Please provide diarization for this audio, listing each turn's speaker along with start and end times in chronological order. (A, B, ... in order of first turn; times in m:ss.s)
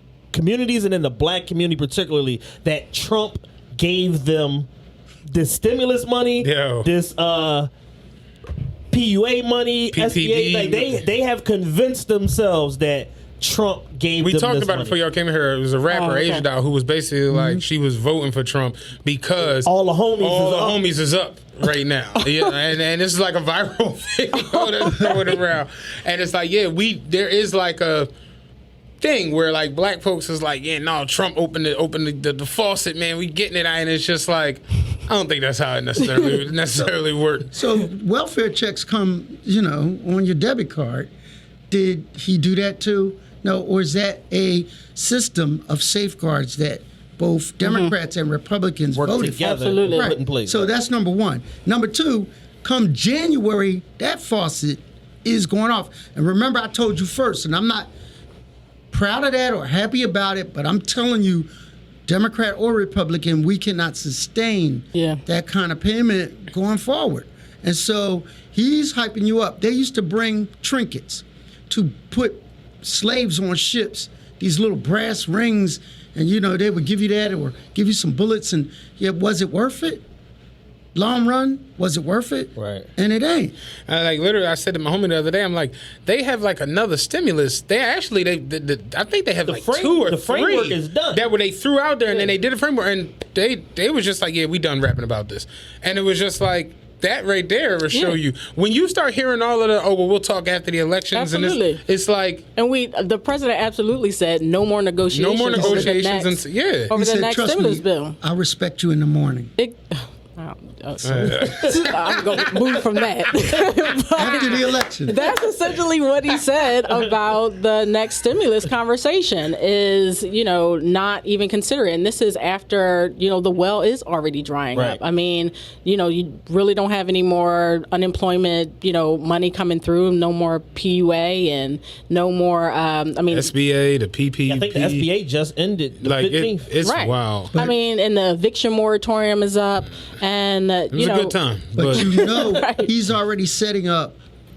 0:00.3-0:04.7 A
0:05.3-0:07.7 A
0:06.4-0:06.9 B
0:08.9-0:15.0 A
0:09.9-0:11.0 B
0:14.2-0:28.1 B
0:15.9-0:16.4 C
0:17.3-0:17.6 D
0:19.6-0:20.8 A
0:22.2-0:22.5 C
0:24.4-0:25.1 C
0:24.9-0:25.2 D
0:29.0-0:37.6 B
0:37.5-0:41.1 D
0:41.7-0:57.9 D
0:47.6-0:47.9 C
0:49.0-0:50.7 A
0:49.5-0:50.2 C
0:58.9-1:01.5 D
1:02.1-1:20.0 D
1:04.9-1:05.2 C
1:21.0-1:23.5 D
1:22.6-1:22.9 A
1:23.9-1:42.4 B
1:29.5-1:31.3 A
1:37.9-1:38.2 C
1:41.1-1:41.8 C
1:42.6-1:48.2 C
1:45.1-1:46.9 B
1:45.5-1:45.9 D
1:46.9-1:49.5 D
1:49.6-2:13.5 C
1:51.0-1:52.9 B
1:54.2-1:55.2 D
2:04.7-2:05.0 A
2:13.3-2:15.1 B
2:14.5-2:16.9 A
2:16.0-2:17.5 B
2:16.8-2:22.9 C
2:20.9-2:22.1 B
2:21.8-2:24.2 D